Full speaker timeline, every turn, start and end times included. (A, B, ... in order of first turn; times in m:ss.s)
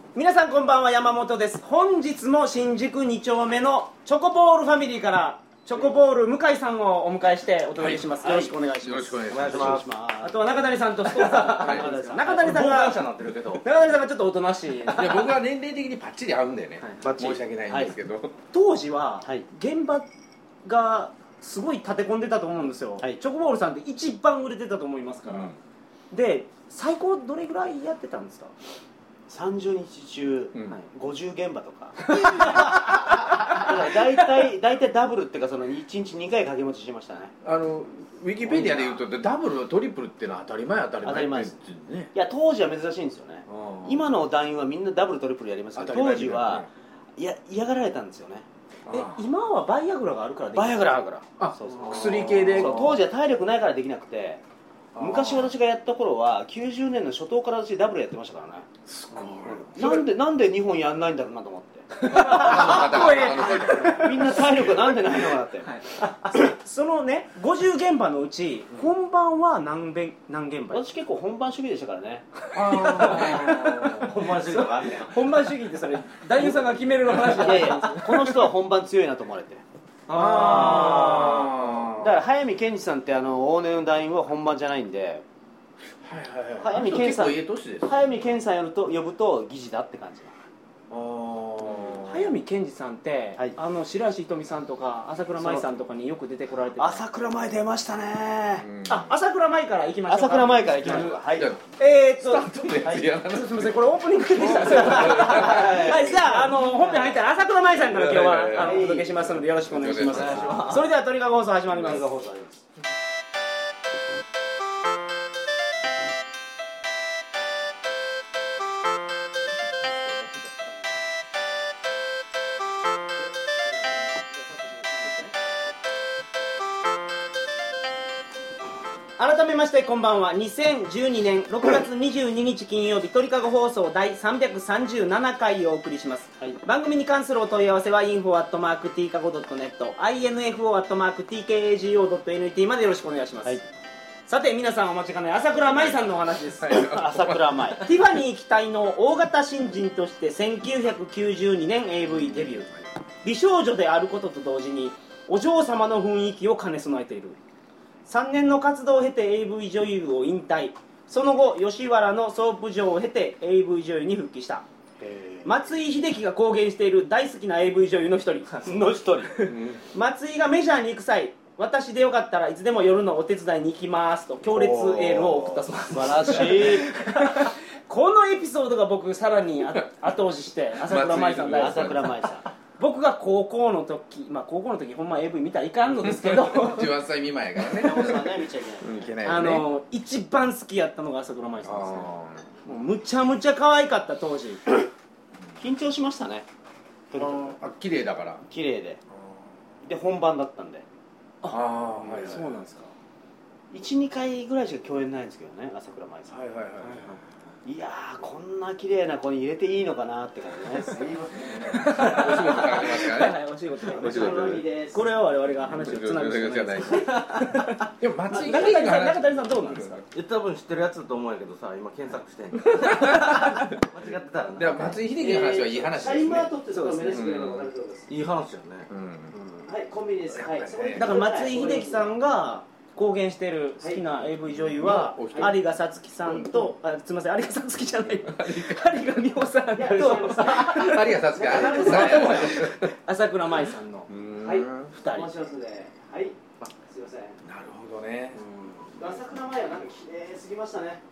0:00.1-0:09.2 A
0:07.8-0:08.2 B
0:08.2-0:08.7 C
0:08.8-0:09.9 B
0:09.3-0:09.8 D
0:09.4-0:10.5 C
0:10.2-0:13.0 A
0:11.2-0:13.6 D
0:11.3-0:12.7 C
0:13.6-0:15.4 A
0:14.9-0:18.3 B
0:17.0-0:17.9 C
0:18.5-0:20.1 A
0:20.6-0:25.5 A
0:25.3-0:25.6 B
0:26.1-0:28.5 A
0:29.3-0:37.3 C
0:32.1-0:32.7 A
0:37.4-0:42.1 B
0:38.4-0:39.0 C
0:41.0-0:41.6 C
0:42.1-0:48.4 C
0:43.5-0:44.0 B
0:45.8-0:46.7 B
0:48.9-0:49.2 B
0:48.9-0:51.0 A
0:50.5-0:54.4 C
0:51.4-0:53.0 B
0:51.7-0:52.1 A
0:55.0-0:55.5 B
0:55.0-0:58.7 C
0:58.9-1:00.0 B
0:59.1-0:59.9 A
0:59.6-1:03.0 C
1:02.0-1:04.4 A
1:02.1-1:05.0 B
1:03.8-1:05.7 C
1:05.6-1:10.8 A
1:10.7-1:12.3 C
1:12.5-1:14.1 B
1:12.6-1:18.4 A
1:13.1-1:13.3 D
1:13.9-1:15.1 D
1:17.4-1:19.6 C
1:20.1-1:21.5 A
1:20.1-1:22.1 B
1:20.3-1:21.4 C
1:22.0-1:25.2 C
1:26.0-1:27.9 B
1:26.6-1:30.3 C
1:30.9-1:32.3 B
1:32.1-1:37.0 A
1:35.4-1:35.6 C
1:36.8-1:38.7 C
1:38.6-1:39.1 B
1:38.9-1:41.1 A
1:40.1-1:41.5 C
1:40.8-1:45.9 B
1:41.8-1:52.0 A
1:42.8-1:43.1 C
1:44.5-1:47.2 C
1:47.9-1:50.8 B
1:48.5-1:49.2 C
1:50.1-1:50.7 D
1:50.2-1:50.8 C
1:51.7-1:52.6 C
2:00.1-2:00.4 B
2:03.6-2:05.7 C
2:09.2-2:23.6 A
2:24.3-2:26.9 A
2:26.6-2:27.8 B
2:26.7-2:27.8 C
2:27.8-2:37.4 A
2:38.1-2:44.6 A
2:45.0-2:45.5 C
2:45.4-2:48.7 A
2:48.6-2:49.5 C
2:49.4-3:02.1 A
2:49.4-2:49.8 B
2:54.4-2:55.7 B
2:55.9-2:56.9 C
3:00.8-3:02.3 B
3:01.4-3:02.5 C
3:02.8-3:07.0 A
3:06.0-3:09.7 B
3:07.6-3:09.1 C
3:09.2-3:12.1 A
3:11.6-3:12.5 B
3:12.6-3:14.6 A
3:15.6-3:16.4 C
3:17.1-3:17.6 C
3:17.2-3:18.4 B
3:18.5-3:19.0 C
3:19.8-3:20.8 C
3:21.4-3:22.9 A
3:21.5-3:22.6 B
3:23.7-3:26.4 C
3:26.3-3:27.2 B
3:26.8-3:27.2 A
3:27.6-3:31.8 C
3:31.4-3:34.6 B
3:31.7-3:34.4 A
3:33.8-3:35.1 C
3:34.9-3:40.0 A
3:35.6-3:40.0 B
3:40.1-3:45.0 D
3:42.7-3:43.6 B
3:44.5-3:46.5 B
3:45.1-3:48.1 C
3:46.7-3:47.2 A
3:47.1-3:47.7 B
3:48.1-3:48.9 D
3:48.9-3:49.4 B
3:49.4-3:49.6 A
3:49.6-3:52.1 C
3:50.3-3:51.1 B
3:51.0-4:04.1 A
3:54.5-3:55.6 B
3:55.3-3:55.5 C
3:58.2-3:58.8 B
3:59.8-4:02.7 C
4:00.5-4:02.9 B
4:04.1-4:04.9 B
4:04.4-4:07.4 C
4:04.9-4:05.3 A
4:07.4-4:08.4 B
4:08.4-4:08.9 A
4:09.0-4:11.0 C